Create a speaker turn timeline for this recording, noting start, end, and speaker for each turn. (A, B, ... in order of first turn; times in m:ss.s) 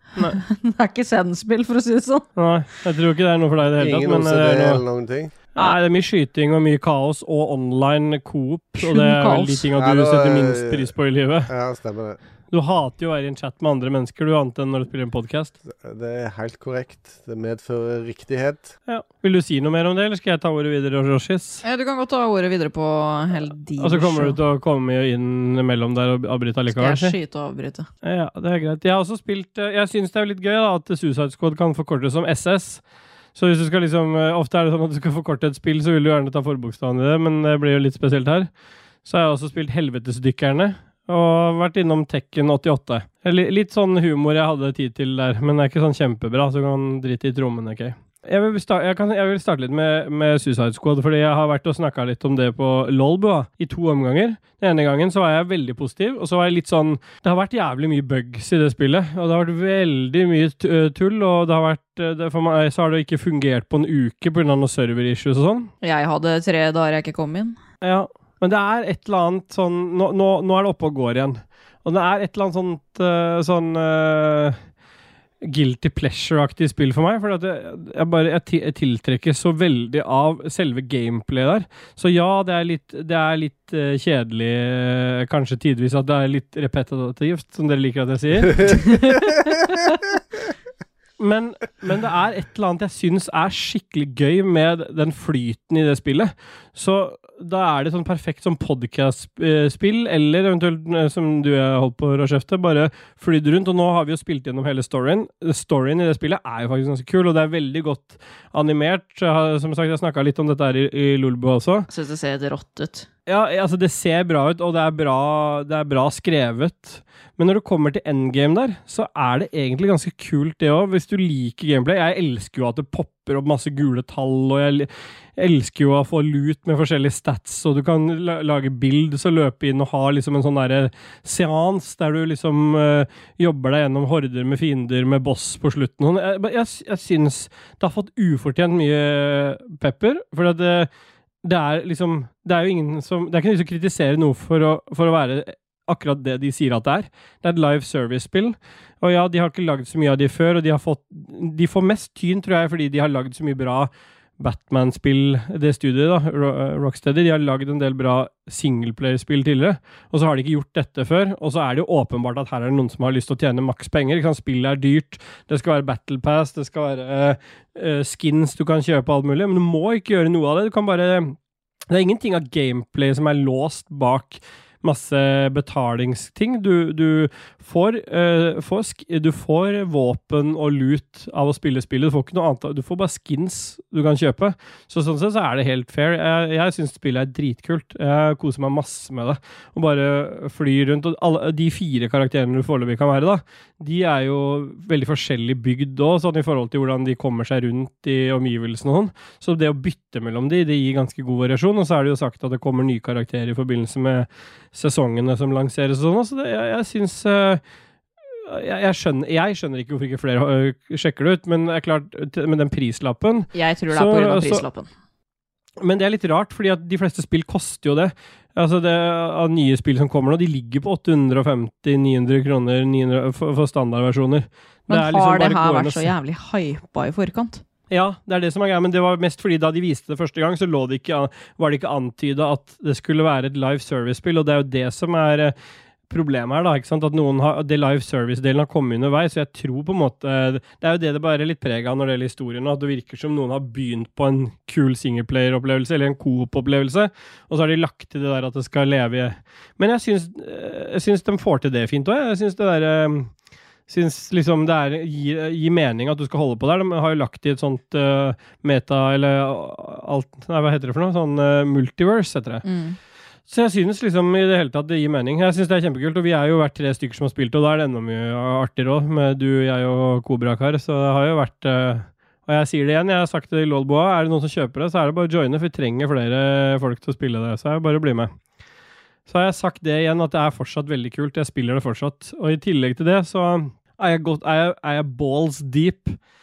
0:00.2-0:02.3 A
0:02.4-0:04.8 B
0:03.8-0:05.3 C
0:05.5-0:11.5 B
0:08.8-0:09.7 A
0:09.8-0:10.9 C
0:11.5-0:12.2 C
0:12.5-0:15.5 B
0:15.7-0:18.7 C
0:18.9-0:21.6 B
0:21.6-0:24.4 A
0:23.8-0:27.2 B
0:26.7-0:27.9 A
0:28.0-0:32.8 B
0:33.3-0:38.5 B
0:39.0-1:05.7 B
1:05.8-1:07.6 A
1:07.8-1:14.6 B
1:15.4-1:30.0 B
1:31.2-1:51.9 B
1:51.9-1:53.1 A
1:53.3-2:20.9 B
2:21.4-2:51.3 B
2:51.9-3:27.6 B
3:28.4-3:34.6 B
3:33.5-3:34.9 A
3:35.8-3:46.1 B
3:44.9-3:47.6 A
3:47.9-3:55.5 B
3:56.1-4:13.3 B
4:13.9-4:22.6 B
4:22.6-4:23.0 A
4:23.5-4:38.3 B
4:39.3-4:46.2 B